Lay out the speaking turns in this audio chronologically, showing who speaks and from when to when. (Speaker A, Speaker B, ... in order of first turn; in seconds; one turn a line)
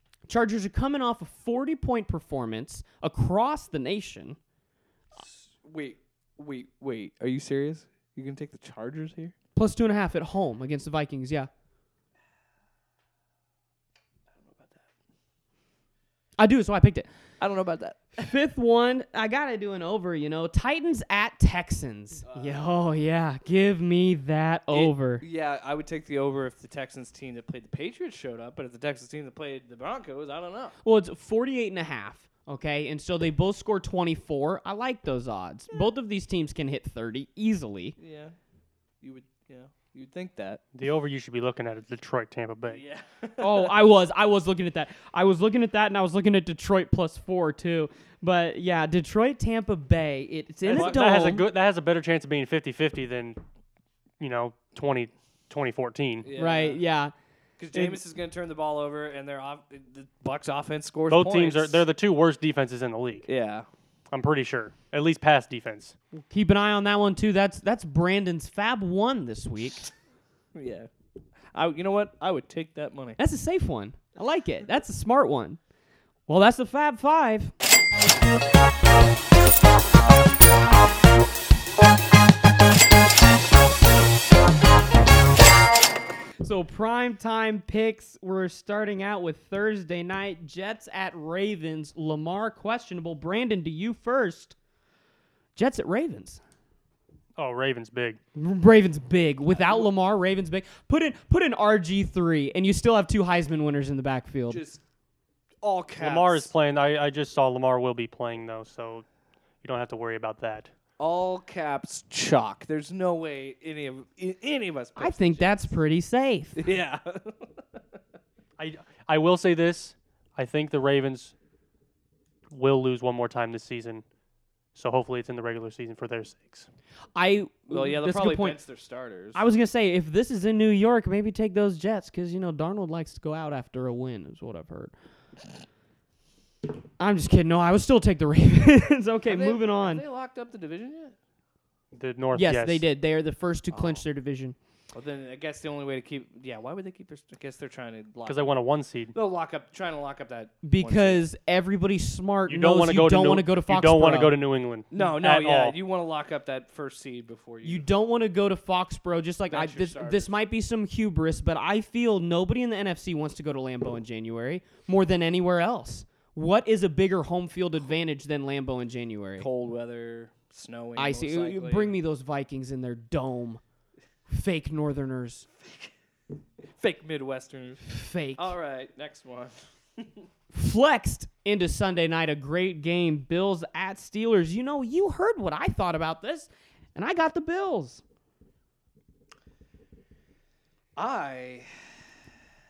Speaker A: 0.3-4.4
Speaker B: 5.2-9.3
Speaker A: 9.6-11.5
Speaker B: 14.4-14.8
Speaker A: 16.4-17.1
Speaker B: 17.4-18.0
Speaker A: 18.1-25.2
Speaker B: 22.2-22.6
Speaker B: 24.7-30.7
Speaker A: 30.8-38.0
Speaker B: 38.0-38.3
Speaker B: 39.0-40.6
Speaker C: 40.7-42.8
Speaker B: 42.7-43.7
Speaker A: 43.4-51.5
Speaker C: 50.6-53.4
Speaker B: 50.7-51.0
Speaker C: 54.2-56.3
Speaker B: 56.2-56.8
Speaker A: 56.3-57.1
Speaker B: 57.6-61.8
Speaker A: 57.7-58.0
Speaker C: 61.1-63.3
Speaker B: 63.2-63.7
Speaker C: 64.1-65.9
Speaker A: 66.3-69.8
Speaker B: 70.5-70.9
Speaker B: 71.5-73.2
Speaker A: 73.2-75.6
Speaker A: 76.3-77.5
Speaker A: 86.4-94.5
Speaker A: 95.5-96.4
Speaker C: 97.4-98.2
Speaker A: 98.3-104.6
Speaker B: 99.5-99.9
Speaker B: 104.5-104.8
Speaker B: 105.6-106.5
Speaker C: 106.0-109.0
Speaker C: 109.6-110.7
Speaker B: 111.0-115.6
Speaker A: 115.0-116.7
Speaker B: 116.5-117.5
Speaker C: 118.6-121.3
Speaker C: 122.5-124.0
Speaker C: 124.7-126.7
Speaker A: 127.1-128.6
Speaker B: 127.7-129.4
Speaker A: 129.3-134.9
Speaker A: 137.0-140.0
Speaker B: 139.2-141.1
Speaker C: 141.9-142.8
Speaker A: 142.3-144.5
Speaker B: 143.7-144.0
Speaker B: 144.9-148.5
Speaker C: 148.2-149.1
Speaker B: 149.1-151.2
Speaker A: 150.6-154.3
Speaker C: 152.5-155.7
Speaker B: 154.9-157.8
Speaker A: 157.6-169.5
Speaker B: 159.5-160.3
Speaker B: 169.4-171.9
Speaker A: 170.9-173.6
Speaker A: 174.3-175.5
Speaker B: 175.6-175.9
Speaker B: 176.8-180.1
Speaker A: 177.8-178.5
Speaker A: 180.5-188.0
Speaker B: 191.0-191.7